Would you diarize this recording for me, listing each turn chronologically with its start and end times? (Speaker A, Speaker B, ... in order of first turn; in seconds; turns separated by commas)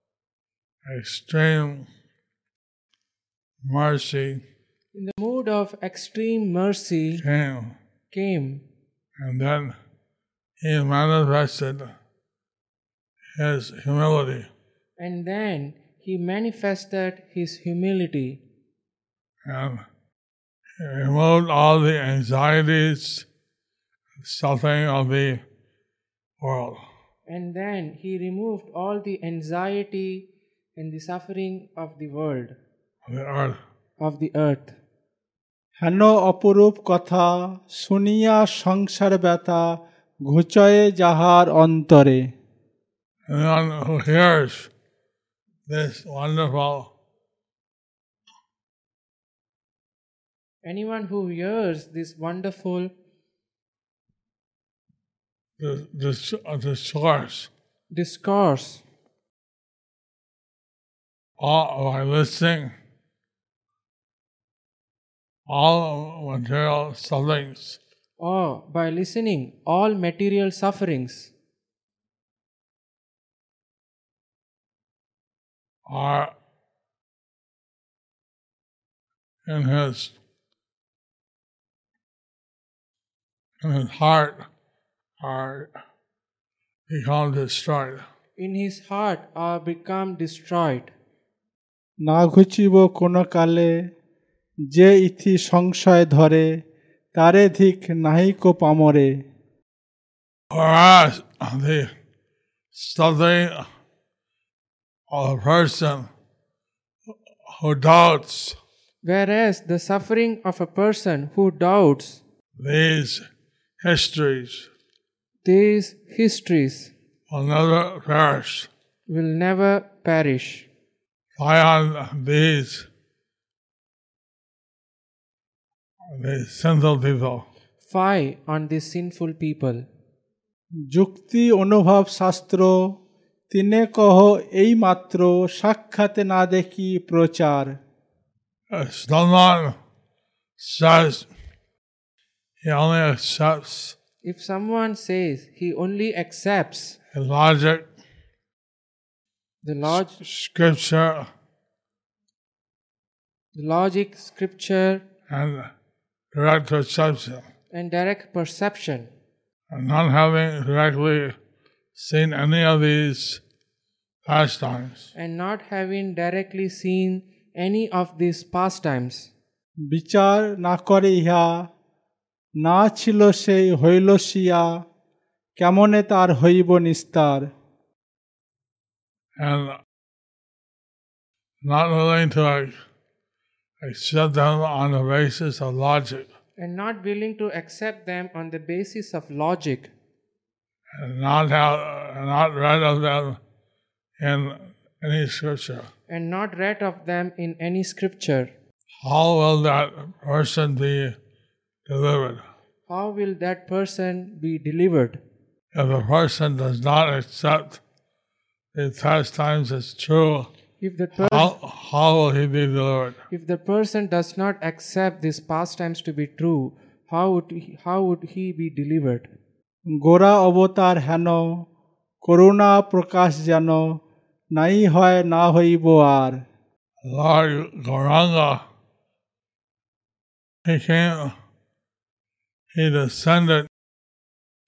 Speaker A: 0.8-1.9, Speaker A: 3.6-4.4, Speaker B: 4.9-7.2, Speaker A: 7.2-7.8, Speaker B: 8.1-8.6, Speaker A: 9.2-9.8, Speaker A: 10.6-11.9, Speaker A: 13.4-14.5, Speaker B: 15.0-18.4, Speaker A: 19.4-19.8, Speaker A: 20.8-23.3, Speaker A: 24.2-25.4, Speaker A: 26.4-26.8, Speaker B: 27.3-32.6, Speaker A: 33.0-33.6, Speaker B: 34.0-34.8, Speaker C: 35.8-42.3, Speaker A: 43.3-44.7, Speaker A: 45.7-46.9, Speaker B: 50.6-52.9, Speaker A: 55.6-57.5, Speaker B: 57.9-58.8, Speaker A: 61.4-62.7, Speaker A: 65.5-67.8, Speaker B: 68.2-71.3, Speaker A: 75.9-76.3, Speaker A: 79.5-80.2, Speaker A: 83.6-84.5, Speaker A: 85.2-85.7, Speaker A: 86.9-88.0, Speaker B: 88.4-90.9, Speaker C: 92.0-93.8, Speaker C: 94.7-96.5, Speaker C: 97.1-99.2, Speaker A: 100.5-101.9, Speaker A: 102.7-103.7, Speaker A: 105.1-106.1, Speaker A: 107.5-108.6, Speaker B: 109.0-112.2, Speaker A: 112.6-113.2, Speaker A: 113.8-114.7, Speaker B: 115.5-116.9, Speaker A: 117.3-118.7, Speaker B: 119.1-120.7, Speaker A: 121.4-122.9, Speaker A: 126.1-127.5, Speaker B: 127.8-129.9, Speaker C: 130.9-133.0, Speaker C: 133.5-137.8, Speaker A: 138.7-139.8, Speaker A: 140.6-141.3, Speaker A: 142.6-144.0, Speaker B: 144.2-147.0, Speaker A: 147.1-147.9, Speaker B: 149.6-150.2, Speaker A: 149.9-151.3, Speaker B: 153.6-155.0, Speaker A: 155.3-155.7, Speaker A: 156.3-157.5, Speaker B: 157.7-159.1, Speaker A: 159.7-161.3, Speaker A: 161.9-163.4, Speaker A: 164.2-165.1, Speaker B: 165.2-169.3, Speaker C: 169.9-171.7, Speaker C: 172.6-174.8, Speaker C: 175.6-177.5, Speaker A: 179.4-179.8, Speaker A: 181.6-182.8, Speaker A: 183.8-186.3, Speaker B: 186.6-189.9, Speaker A: 190.9-193.4, Speaker A: 194.2-195.9, Speaker B: 196.1-198.5, Speaker A: 199.0-201.2, Speaker A: 201.9-202.4, Speaker B: 202.9-205.2, Speaker A: 205.7-207.8, Speaker A: 208.7-210.5, Speaker B: 210.8-211.5, Speaker A: 211.2-213.2, Speaker B: 213.3-219.3, Speaker C: 219.9-221.7, Speaker C: 222.2-224.0, Speaker C: 224.6-226.4, Speaker A: 227.0-228.6, Speaker A: 230.7-231.3, Speaker A: 232.7-233.7